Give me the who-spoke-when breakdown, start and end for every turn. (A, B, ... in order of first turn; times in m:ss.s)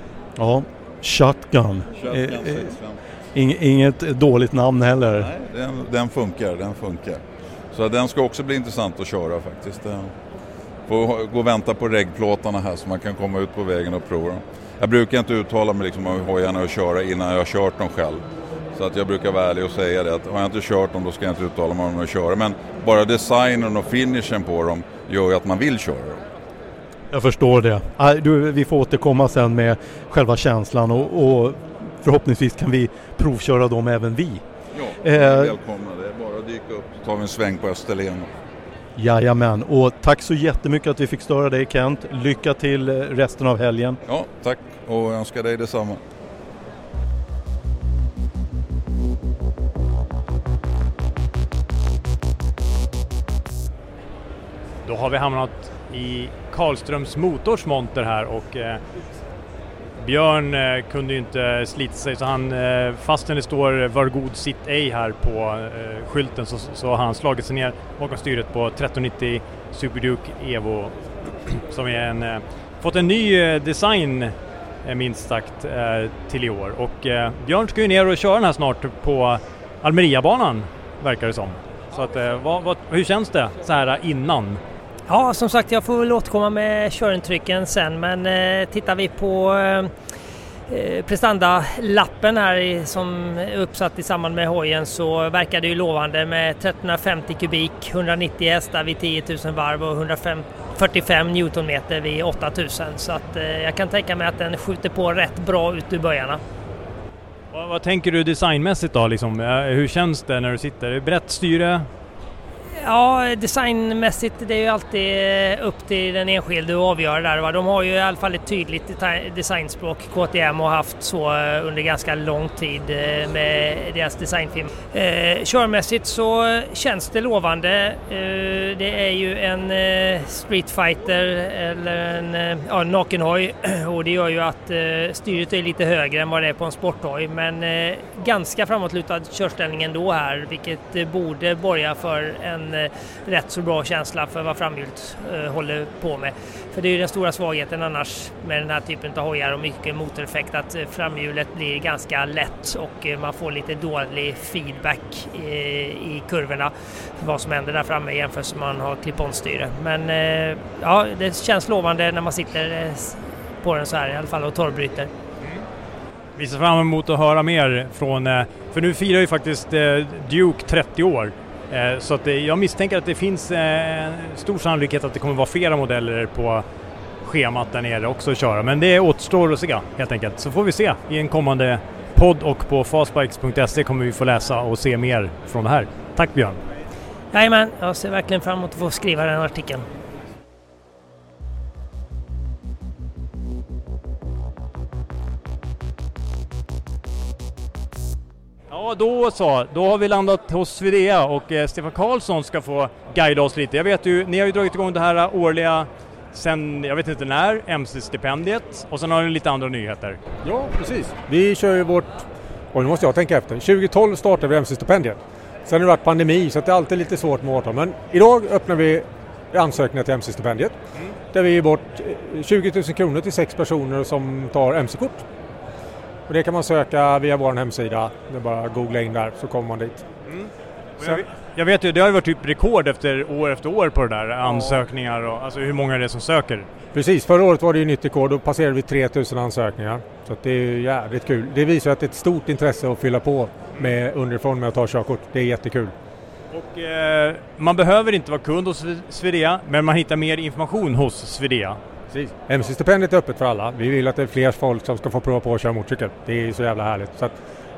0:00.4-0:02.7 A
0:02.0-0:03.0 B
0:03.3-0:05.3 A
0:05.1-0:07.2 B
0:07.7-0:10.1 B
0:10.9-0:26.2 B
0:27.1-0:34.4 A
0:34.7-0:38.3 B
0:35.0-0:35.6 A
0:39.0-0:44.0 A
0:44.1-0:46.0 B
0:54.8-0:58.8 C
1:00.0-1:24.6 C
1:25.1-1:29.9 D
1:30.7-1:46.4 D
1:47.5-1:51.9 C
1:52.8-2:45.1 D
2:46.4-2:56.6 C
2:57.2-3:06.6 C
3:07.3-3:09.8 D
3:18.7-3:30.2 C
3:30.4-3:40.8 E
3:41.3-3:45.3 E
3:46.3-3:50.1 E
3:51.0-3:56.7 C
3:54.4-3:54.8 E
3:56.9-4:05.9 E
4:06.5-4:11.8 C
4:12.1-4:17.4 E